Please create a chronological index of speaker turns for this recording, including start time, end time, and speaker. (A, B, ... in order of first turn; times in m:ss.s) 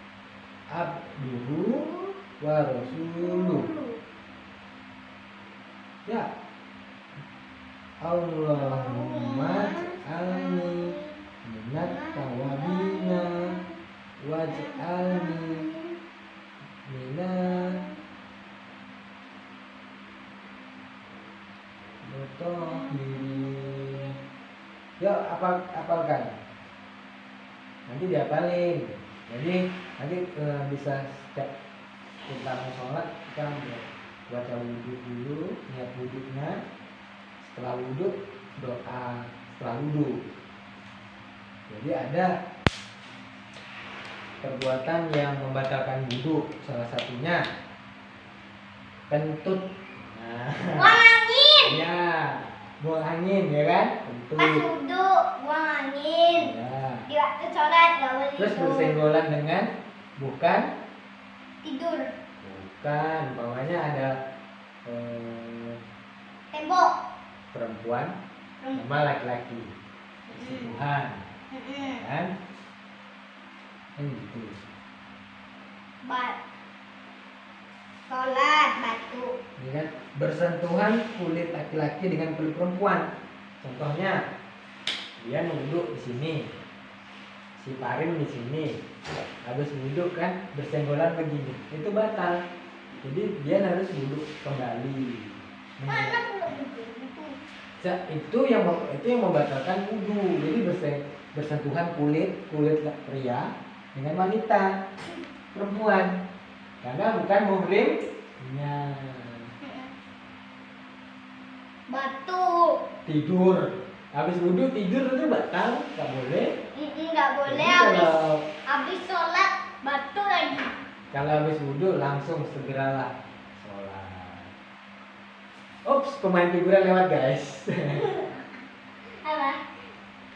0:00.7-0:01.8 A
0:01.6-0:02.2 B
0:02.4-0:03.7 A
0:02.8-0:04.0 B
0:08.0-0:10.9 A
0:08.6-0:11.2 B
0:11.4-0:13.5 A
0:11.8-0:13.7 B
0:14.2-0:15.7 A
0:14.5-0:16.0 B
0:16.9-0:17.8 A
0:17.5-0:18.0 B
0:22.0-0:24.1 A
0:22.6-0:24.2 B
0:25.0-0:26.3 A
0:27.9-0:31.5 A
0:32.3-0:36.6 A
0:37.4-0:40.2 A
0:41.7-0:42.3 A
0:44.4-0:47.4 A
0:49.1-0:50.9 A
0:50.8-0:51.8 B
0:51.6-0:54.6 A
0:54.4-0:56.5 B
0:56.4-0:57.0 A
0:57.1-0:59.0 B
0:58.4-0:59.7 A
1:00.2-1:00.7 A
1:01.6-1:02.1 B
1:02.4-1:04.1 A
1:04.9-1:05.8 A
1:06.5-1:06.9 B
1:07.5-1:08.1 A
1:08.7-1:09.7 A
1:10.3-1:10.8 B
1:10.3-1:11.2 A
1:11.5-1:12.0 B
1:11.8-1:12.3 A
1:14.0-1:14.5 A
1:16.1-1:16.4 B
1:18.1-1:19.3 B
1:19.6-1:23.1 A
1:23.6-1:24.2 A
1:25.2-1:26.4 A
1:27.6-1:28.8 A
1:29.5-1:32.4 A
1:33.0-1:36.2 A
1:35.9-1:37.4 B
1:37.8-1:44.7 A
1:45.5-1:46.1 A
1:46.8-1:49.5 A
1:49.6-1:49.9 B
1:51.9-1:52.8 B
1:53.1-1:56.5 A
1:56.7-1:58.1 B
1:57.5-1:58.4 A
1:58.7-2:00.7 B
2:01.1-2:04.5 A
2:05.9-2:08.1 A
2:09.1-2:09.6 B